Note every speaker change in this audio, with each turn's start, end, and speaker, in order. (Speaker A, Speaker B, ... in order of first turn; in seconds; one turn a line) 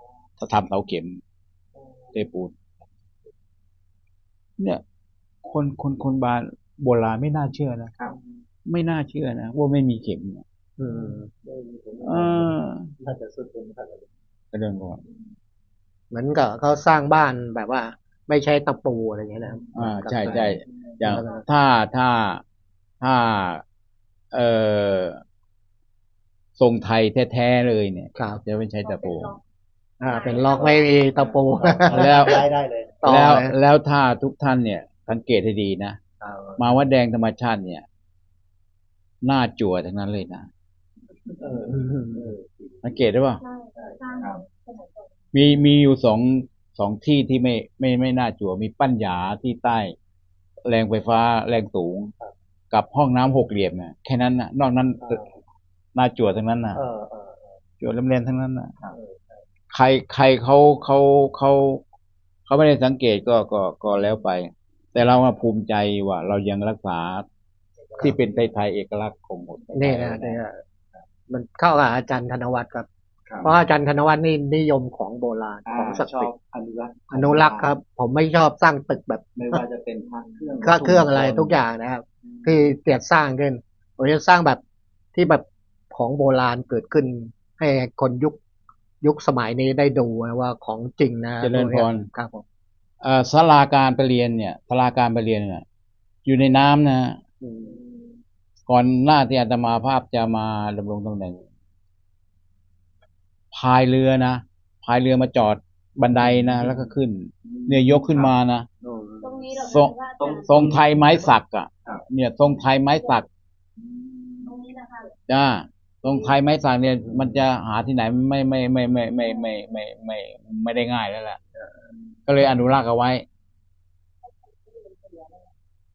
Speaker A: 0.4-1.2
Speaker B: 1.8-2.2
Speaker A: 2.1-2.5
Speaker A: 5.4-7.9
Speaker A: 8.7-10.4
Speaker C: 10.8-11.3
Speaker B: 10.9-14.1
Speaker A: 12.0-12.9
Speaker A: 14.5-15.0
Speaker C: 16.1-21.4
Speaker A: 19.7-22.4
Speaker A: 23.0-23.6
Speaker A: 24.3-25.2
Speaker A: 26.6-29.4
Speaker C: 28.1-28.4
Speaker D: 28.9-29.3
Speaker C: 30.0-32.4
Speaker D: 30.1-30.9
Speaker B: 31.1-33.0
Speaker A: 31.9-32.4
Speaker C: 33.0-33.5
Speaker A: 33.0-36.0
Speaker B: 36.2-36.7
Speaker A: 36.6-37.8
Speaker A: 39.2-40.5
Speaker B: 41.4-42.8
Speaker C: 41.9-42.2
Speaker A: 42.8-43.4
Speaker D: 43.4-45.1
Speaker B: 43.8-44.1
Speaker E: 44.2-44.4
Speaker A: 45.3-49.9
Speaker A: 50.6-52.1
Speaker A: 52.7-55.2
Speaker B: 55.0-55.3
Speaker A: 55.9-56.8
Speaker B: 56.7-57.6
Speaker A: 57.8-58.7
Speaker B: 58.9-59.4
Speaker A: 59.7-61.8
Speaker A: 62.5-67.2
Speaker A: 68.0-70.4
Speaker C: 69.7-70.6
Speaker C: 71.3-72.9
Speaker C: 73.4-76.3
Speaker E: 75.7-77.7
Speaker C: 77.1-79.6
Speaker E: 79.3-81.6
Speaker C: 80.6-84.6
Speaker C: 85.1-88.4
Speaker C: 89.0-92.4
Speaker A: 91.4-92.1
Speaker A: 93.0-95.6
Speaker A: 96.2-97.2
Speaker C: 97.4-97.8
Speaker A: 98.7-101.4
Speaker A: 103.5-108.7
Speaker E: 106.3-106.9
Speaker E: 107.4-108.3
Speaker E: 108.8-109.4
Speaker D: 109.2-110.5
Speaker A: 109.5-113.2
Speaker E: 110.2-110.8
Speaker E: 113.8-114.6
Speaker D: 114.4-115.1
Speaker A: 115.3-121.4
Speaker A: 122.3-123.2
Speaker D: 124.6-125.5